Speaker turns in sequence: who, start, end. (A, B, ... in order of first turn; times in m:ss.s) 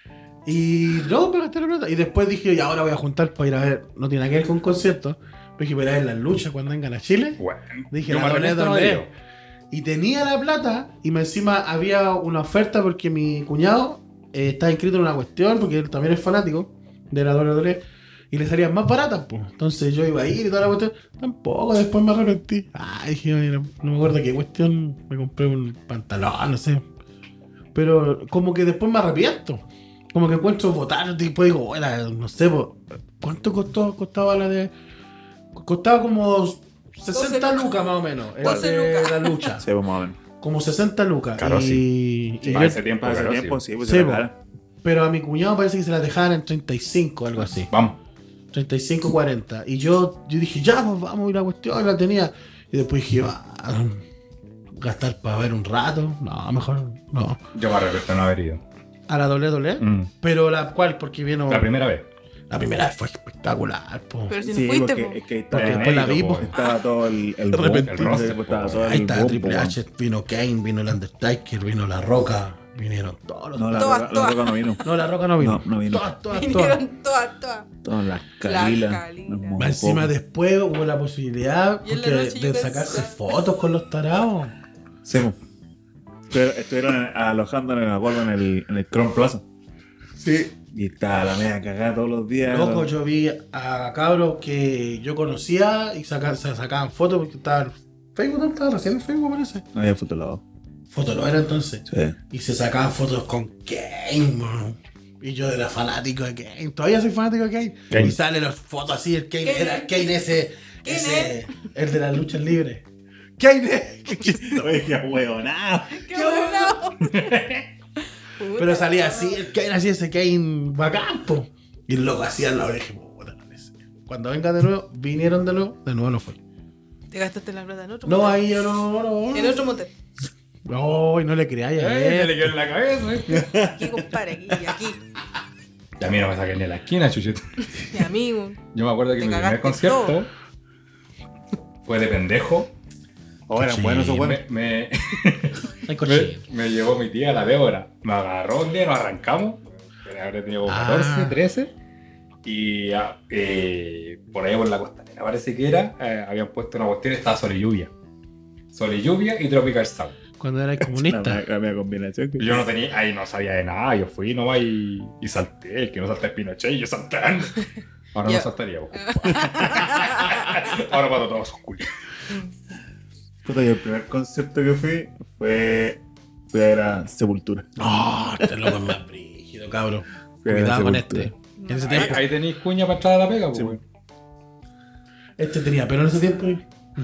0:00.4-0:09.1 A
0:07.4-0:09.1 B
0:09.7-0:26.8 A
0:27.7-0:34.7 A
0:35.5-0:39.6 A
0:37.1-0:37.9 C
0:38.4-0:39.5 C
0:38.4-0:38.7 D
0:39.6-0:40.2 D
0:40.4-0:42.8 A
0:41.4-0:41.9 B
0:42.4-0:44.4 D
0:42.4-0:43.6 B
0:43.8-0:44.3 A
0:44.8-0:47.7 A
0:47.7-0:48.0 B
0:48.5-0:54.0 A
0:54.8-0:57.4 A
0:57.5-0:58.6 B
0:59.1-1:01.7 A
0:59.8-1:00.1 B
1:01.5-1:02.1 B
1:02.5-1:04.4 A
1:04.3-1:05.2 C
1:04.4-1:09.8 D
1:05.5-1:06.5 A
1:05.5-1:06.6 B
1:06.5-1:06.8 C
1:07.5-1:14.0 A
1:07.8-1:08.9 B
1:13.6-1:14.8 D
1:13.8-1:14.8 C
1:14.8-1:16.8 A
1:15.4-1:16.2 D
1:16.3-1:17.7 C
1:17.8-1:20.1 D
1:18.4-1:19.6 C
1:19.6-1:24.6 A
1:21.8-1:23.2 C
1:25.0-1:25.4 D
1:26.3-1:29.4 D
1:30.2-1:30.5 A
1:30.7-1:32.9 D
1:32.4-1:39.7 A
1:39.7-1:40.4 D
1:40.9-1:52.8 A
1:41.9-1:42.2 D
1:47.9-1:48.2 B
1:49.4-1:50.2 C
1:50.8-1:51.4 C
1:53.4-1:54.7 A
1:54.4-1:56.2 D
1:55.9-1:57.4 C
1:56.2-1:56.8 A
1:57.1-1:57.6 B
1:58.4-1:59.4 C
1:58.6-2:06.4 A
2:07.1-2:08.5 C
2:08.0-2:09.6 A
2:09.3-2:09.9 C
2:10.7-2:12.5 A
2:11.8-2:13.5 B
2:13.3-2:13.9 D
2:13.5-2:15.0 C
2:16.0-2:17.4 B
2:17.8-2:18.6 C
2:18.7-2:20.3 B
2:19.2-2:20.2 C
2:21.9-2:22.7 B
2:23.5-2:24.4 D
2:23.6-2:24.2 A
2:23.8-2:31.7 B
2:25.9-2:26.4 A
2:30.7-2:31.4 A
2:32.4-2:37.9 B
2:38.7-2:40.2 B
2:40.4-2:41.4 A
2:40.9-2:42.7 D
2:42.4-2:47.6 B
2:48.1-2:51.9 B
2:48.2-2:50.6 C
2:53.4-2:57.8 D
2:57.8-3:02.2 A
3:00.4-3:01.3 D
3:01.6-3:02.1 C
3:01.9-3:03.8 B
3:03.5-3:03.8 D
3:05.4-3:06.6 A